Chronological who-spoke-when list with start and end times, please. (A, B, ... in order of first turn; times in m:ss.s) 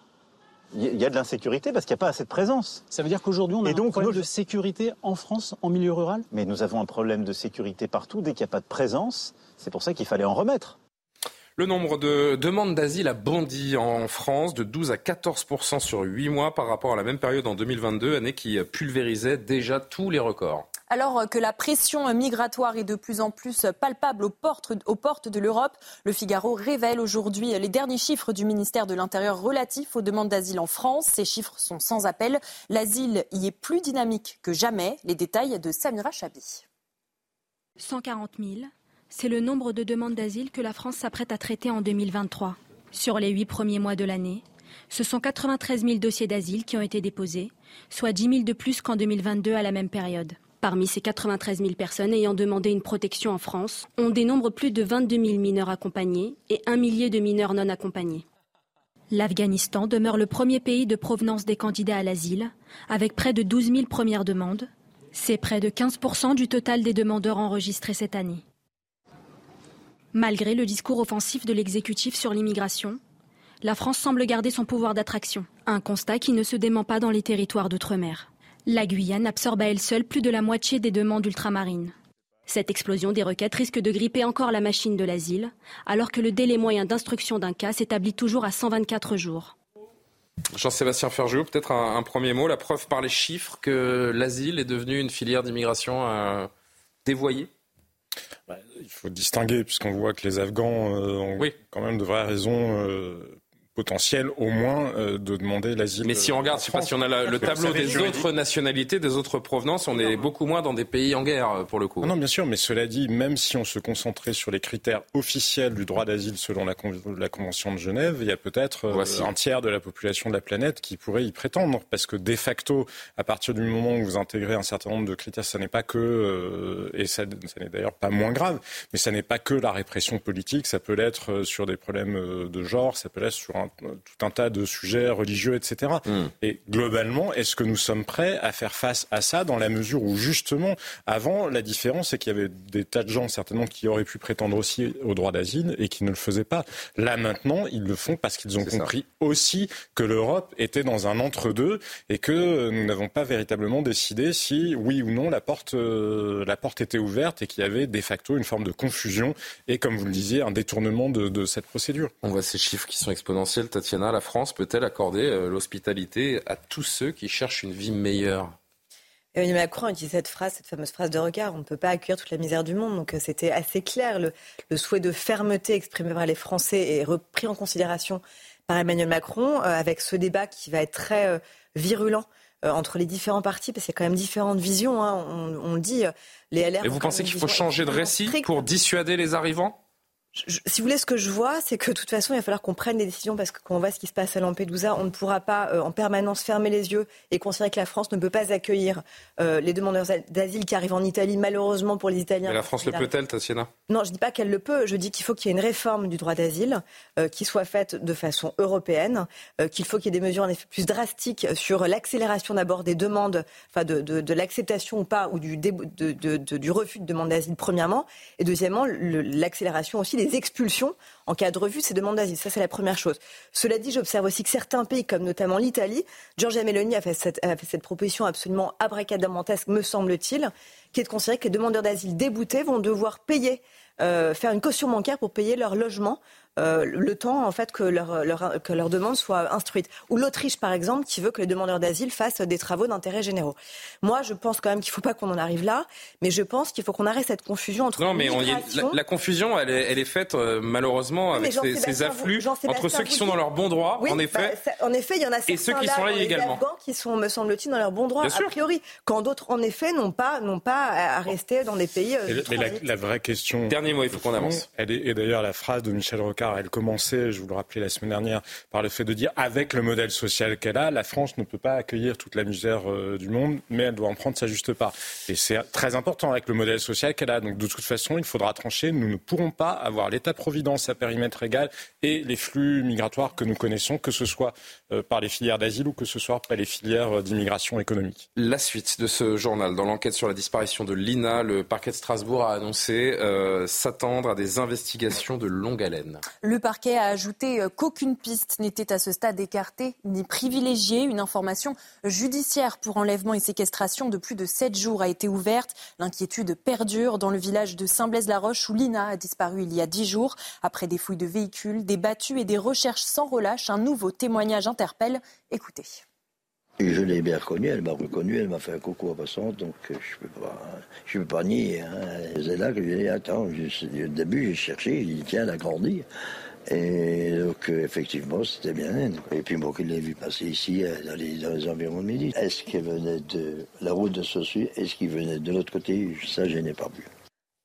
0:00.7-0:02.9 A
0:02.9-0:06.3 B
0:03.6-0:04.3 A
0:06.3-0:10.8 A
0:11.6-0:20.7 C
0:20.9-0:36.6 D
0:37.8-0:58.2 E
0:59.1-1:08.4 E
1:10.1-1:13.0 E
1:13.6-1:22.0 E
1:22.5-1:29.6 E
1:30.5-1:36.5 C
1:37.0-1:37.5 C
1:38.5-1:48.3 F
1:46.0-1:52.1 C
1:52.0-2:42.1 F
1:58.9-1:59.3 C
2:28.6-2:28.9 C
2:42.2-2:48.6 C
2:49.4-3:08.5 G
3:06.8-3:09.8 C
3:10.4-3:23.1 G
3:22.5-3:23.7 C
3:23.9-4:09.0 G
4:08.0-4:14.6 C
4:11.3-4:13.4 G
4:14.0-4:22.8 G
4:15.5-4:16.6 C
4:18.2-4:18.6 C
4:22.3-4:48.3 F
4:23.7-4:24.7 C
4:48.4-4:56.2 C
4:56.4-5:16.0 D
5:16.8-5:26.1 H
5:26.7-5:37.1 H